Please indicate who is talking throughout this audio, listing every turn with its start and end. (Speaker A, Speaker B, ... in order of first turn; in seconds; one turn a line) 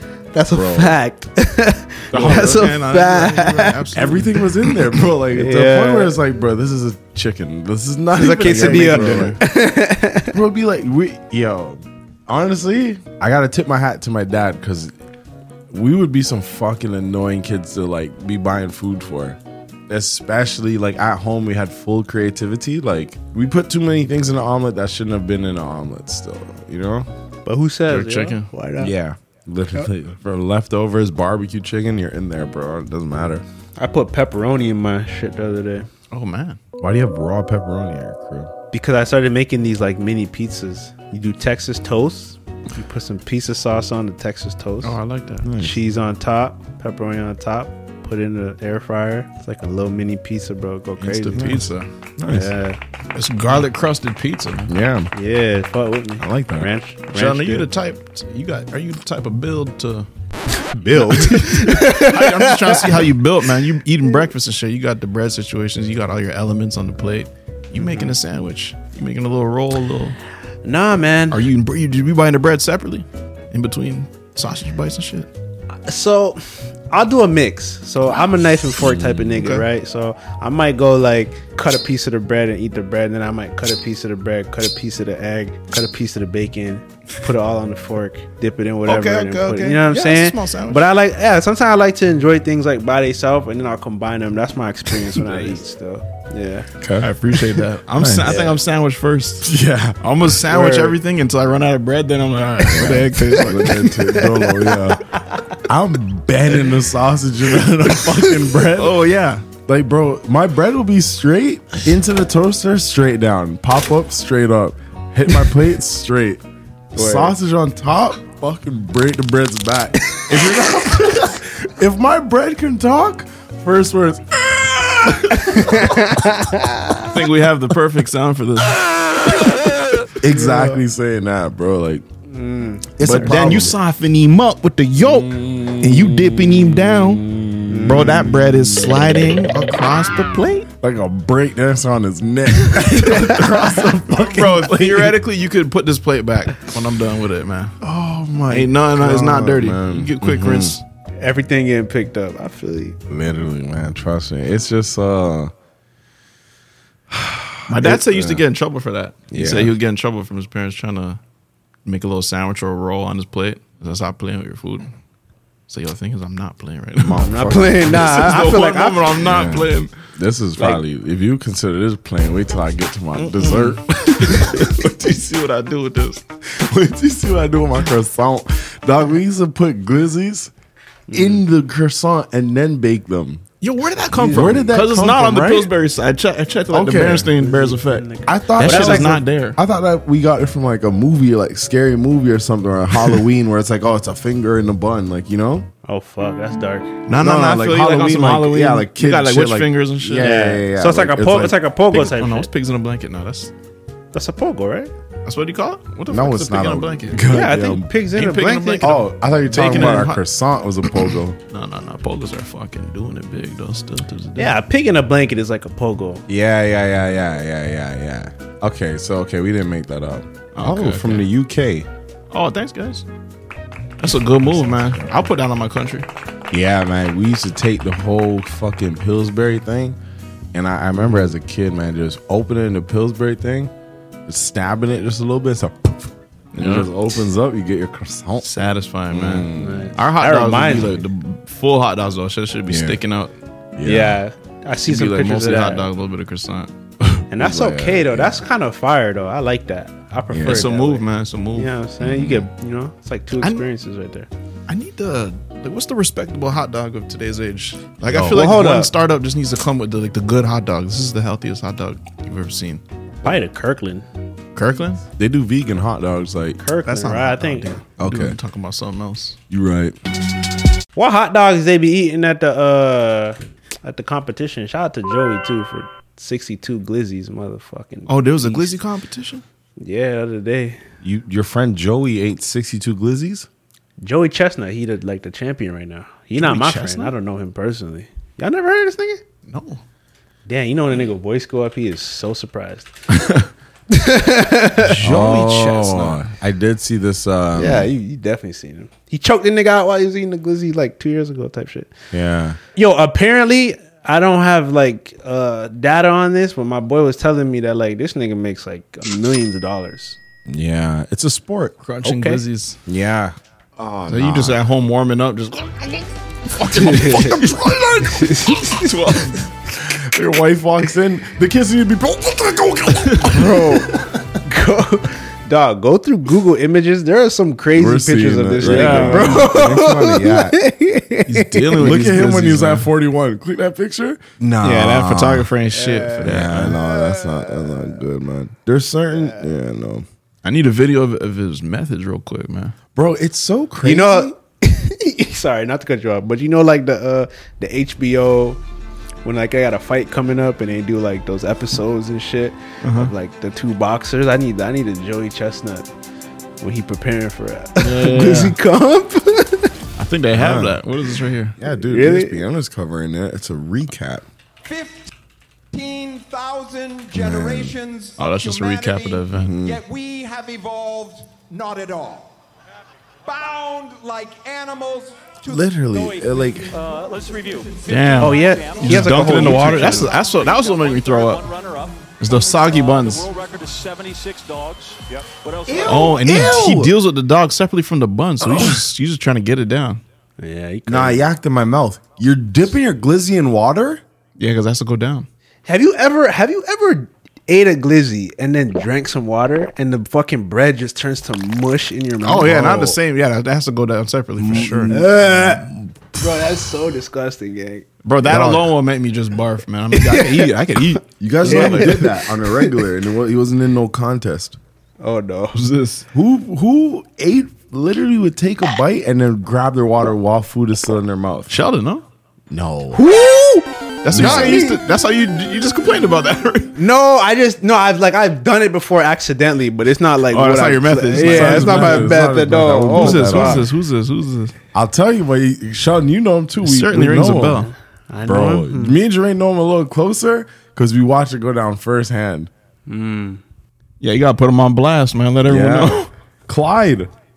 Speaker A: 0.3-3.9
Speaker B: 0.5-1.0
Speaker B: 2.1-2.7
Speaker C: 2.1-4.8
Speaker B: 4.0-9.4
Speaker A: 5.3-6.2
Speaker A: 8.1-10.4
Speaker C: 8.4-9.4
Speaker B: 10.3-14.9
Speaker B: 15.7-19.4
Speaker B: 19.9-27.1
Speaker A: 27.5-28.9
Speaker C: 27.9-28.5
Speaker B: 28.8-33.4
Speaker A: 33.8-35.9
Speaker C: 36.1-36.6
Speaker B: 36.8-38.5
Speaker A: 38.7-45.0
Speaker C: 44.8-45.5
Speaker B: 45.4-45.8
Speaker A: 45.6-51.6
Speaker C: 51.0-51.9
Speaker B: 51.3-51.7
Speaker B: 52.2-52.5
Speaker A: 52.3-52.8
Speaker C: 53.1-54.7
Speaker B: 54.7-55.1
Speaker A: 55.1-57.7
Speaker B: 56.2-56.7
Speaker C: 57.1-60.1
Speaker A: 60.8-63.0
Speaker C: 60.9-70.2
Speaker A: 67.8-68.1
Speaker A: 70.6-71.4
Speaker C: 71.3-75.3
Speaker A: 75.9-96.7
Speaker B: 78.8-79.4
Speaker C: 79.4-79.7
Speaker C: 88.9-90.9
Speaker C: 95.3-95.6
Speaker B: 96.8-97.1
Speaker C: 97.0-99.5
Speaker B: 97.9-98.4
Speaker A: 98.3-98.6
Speaker B: 99.4-100.0
Speaker C: 100.0-103.9
Speaker A: 100.5-101.0
Speaker B: 102.6-105.0
Speaker A: 103.3-104.9
Speaker B: 105.7-109.0
Speaker C: 108.8-109.5
Speaker B: 109.7-116.4
Speaker A: 117.0-117.3
Speaker B: 117.0-126.1
Speaker A: 125.3-127.0
Speaker C: 127.0-130.1
Speaker B: 130.2-132.1
Speaker A: 132.3-133.6
Speaker B: 133.0-133.8
Speaker C: 133.0-137.3
Speaker B: 135.0-139.3
Speaker A: 137.7-138.3
Speaker C: 137.8-140.7
Speaker B: 140.8-145.2
Speaker C: 143.0-143.4
Speaker A: 143.1-143.4
Speaker C: 144.1-147.8
Speaker B: 147.8-150.8
Speaker C: 148.5-150.8
Speaker A: 151.2-153.0
Speaker B: 153.1-155.5
Speaker B: 157.1-158.4
Speaker C: 157.7-161.2
Speaker B: 159.3-159.8
Speaker C: 161.8-164.9
Speaker C: 165.7-167.3
Speaker B: 167.0-168.2
Speaker A: 167.2-169.1
Speaker C: 167.8-169.9
Speaker B: 169.2-174.8
Speaker C: 173.2-176.2
Speaker B: 176.5-180.5
Speaker A: 181.1-181.4
Speaker B: 181.1-183.4
Speaker C: 183.6-189.6
Speaker A: 184.2-184.7
Speaker B: 184.3-185.7
Speaker B: 186.7-187.3
Speaker A: 187.3-189.2
Speaker B: 188.2-195.7
Speaker A: 195.8-196.9
Speaker C: 197.1-200.4
Speaker B: 197.2-201.6
Speaker A: 200.2-202.5
Speaker C: 201.9-203.5
Speaker A: 204.1-204.9
Speaker C: 205.2-207.3
Speaker B: 206.1-207.9
Speaker A: 207.3-209.0
Speaker C: 208.1-210.2
Speaker B: 208.8-211.4
Speaker A: 209.7-210.0
Speaker C: 211.5-214.6
Speaker A: 214.4-216.2
Speaker B: 216.3-221.9
Speaker C: 220.6-221.3
Speaker C: 222.3-223.1
Speaker C: 224.0-226.1
Speaker B: 224.1-225.3
Speaker B: 226.5-230.0
Speaker B: 230.5-233.7
Speaker B: 234.3-238.5
Speaker C: 236.5-236.9
Speaker C: 238.4-243.3
Speaker B: 239.1-239.9
Speaker A: 239.6-241.0
Speaker B: 242.7-243.0
Speaker B: 243.8-244.2
Speaker A: 243.8-245.9
Speaker C: 244.8-246.7
Speaker B: 247.0-248.4
Speaker A: 247.3-254.3
Speaker B: 250.3-250.7
Speaker C: 250.4-251.7
Speaker B: 252.0-252.4
Speaker C: 253.4-253.7
Speaker C: 254.7-262.8
Speaker B: 258.1-258.4
Speaker A: 258.2-258.9
Speaker A: 263.2-264.1
Speaker C: 264.6-265.0
Speaker B: 265.2-266.6
Speaker A: 266.6-267.8
Speaker C: 266.9-269.4
Speaker B: 268.0-268.4
Speaker B: 269.5-270.0
Speaker A: 271.0-278.7
Speaker C: 278.1-279.4
Speaker A: 279.8-280.8
Speaker B: 281.0-283.5
Speaker A: 284.0-289.2
Speaker C: 286.4-287.1
Speaker C: 289.5-289.8
Speaker A: 290.5-292.9
Speaker C: 293.1-293.5
Speaker A: 293.9-295.0
Speaker C: 294.8-296.3
Speaker B: 294.9-297.9
Speaker A: 297.6-301.9
Speaker B: 302.1-302.6
Speaker A: 302.8-310.2
Speaker B: 310.5-311.8
Speaker C: 311.8-312.8
Speaker A: 312.0-312.4
Speaker B: 312.9-314.6
Speaker C: 314.1-319.5
Speaker A: 316.7-317.4
Speaker B: 317.4-317.8
Speaker A: 318.1-318.9
Speaker B: 319.7-324.2
Speaker A: 323.2-332.1
Speaker B: 327.7-330.6
Speaker C: 328.6-329.5
Speaker C: 331.2-332.9
Speaker B: 331.8-335.5
Speaker C: 334.6-336.8
Speaker A: 335.7-338.0
Speaker B: 336.2-340.1
Speaker A: 339.2-339.5
Speaker C: 340.4-342.8
Speaker B: 342.9-344.3
Speaker A: 343.8-348.6
Speaker A: 349.2-355.9
Speaker C: 352.8-353.1
Speaker A: 356.6-359.7
Speaker C: 357.8-358.6
Speaker C: 360.0-361.6
Speaker B: 360.3-360.8
Speaker B: 361.6-364.3
Speaker A: 361.7-362.4
Speaker D: 364.6-365.1
Speaker D: 365.7-372.4
Speaker B: 367.1-367.8
Speaker C: 368.2-369.6
Speaker B: 369.3-369.8
Speaker D: 373.3-379.1
Speaker B: 375.4-376.7
Speaker E: 376.9-377.9
Speaker C: 377.9-381.5
Speaker A: 378.2-380.1
Speaker E: 378.4-379.6
Speaker E: 380.2-381.9
Speaker C: 382.2-383.3
Speaker E: 382.7-386.0
Speaker B: 385.7-386.9
Speaker C: 385.8-390.0
Speaker B: 388.5-388.8
Speaker A: 390.4-391.2
Speaker B: 390.9-394.0
Speaker C: 394.4-395.3
Speaker A: 395.7-402.9
Speaker C: 402.2-405.0
Speaker B: 402.6-402.9
Speaker B: 404.4-405.7
Speaker A: 404.9-407.9
Speaker C: 408.1-412.0
Speaker B: 408.3-408.7
Speaker A: 409.9-410.5
Speaker B: 411.2-414.6
Speaker A: 411.4-412.7
Speaker A: 415.0-415.6
Speaker C: 415.5-416.1
Speaker B: 416.1-421.6
Speaker C: 421.5-422.0
Speaker B: 422.5-423.0
Speaker A: 422.9-424.8
Speaker C: 424.0-426.8
Speaker B: 424.1-424.7
Speaker A: 426.8-433.7
Speaker C: 430.3-432.1
Speaker B: 431.2-433.7
Speaker C: 432.9-434.6
Speaker B: 434.7-437.7
Speaker C: 436.6-437.7
Speaker A: 438.1-439.0
Speaker B: 438.3-442.5
Speaker A: 442.9-443.4
Speaker C: 444.0-446.1
Speaker B: 445.4-447.1